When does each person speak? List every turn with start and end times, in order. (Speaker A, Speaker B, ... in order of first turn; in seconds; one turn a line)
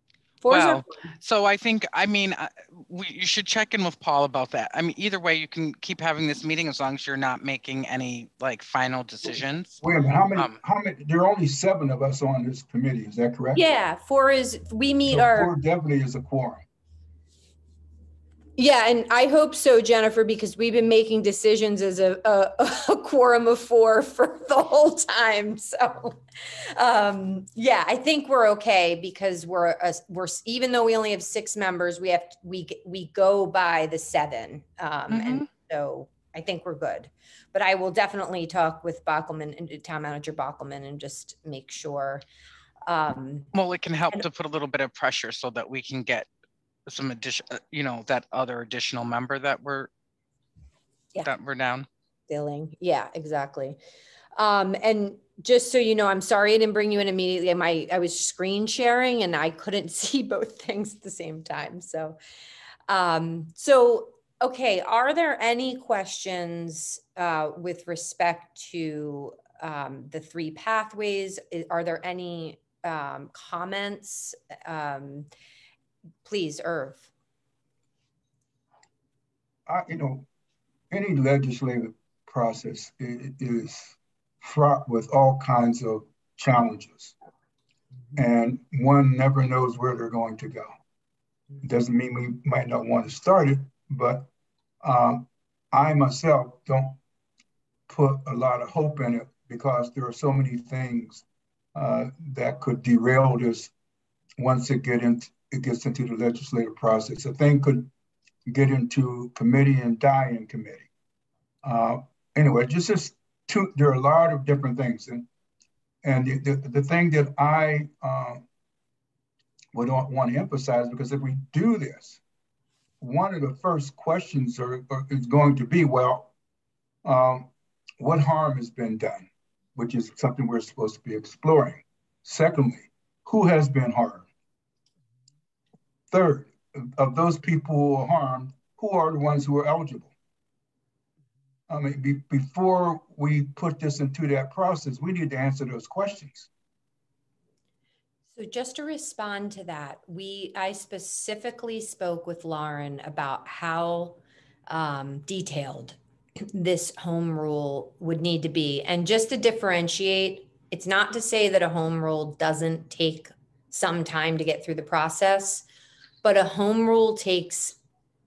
Speaker A: 0.4-0.9
Speaker B: 0.5-9.8
Speaker C: 9.8-13.6
Speaker A: 13.5-15.5
Speaker C: 15.1-16.7
Speaker A: 18.6-26.2
Speaker A: 26.8-42.2
Speaker B: 35.1-35.5
Speaker A: 42.9-43.5
Speaker B: 43.5-46.3
Speaker B: 46.9-49.9
Speaker B: 51.2-51.9
Speaker A: 52.3-53.8
Speaker A: 54.4-62.2
Speaker A: 62.9-75.3
Speaker A: 76.2-77.1
Speaker C: 79.7-80.3
Speaker C: 80.9-87.1
Speaker C: 88.2-90.7
Speaker C: 91.6-94.3
Speaker C: 94.8-97.0
Speaker C: 97.9-101.2
Speaker C: 101.8-103.7
Speaker C: 104.4-107.9
Speaker C: 108.5-110.9
Speaker C: 111.6-115.3
Speaker C: 116.0-118.5
Speaker C: 119.7-122.2
Speaker C: 123.0-126.3
Speaker C: 127.0-134.3
Speaker C: 136.1-140.1
Speaker C: 141.7-146.5
Speaker A: 148.3-156.0
Speaker A: 156.5-165.6
Speaker A: 166.2-167.8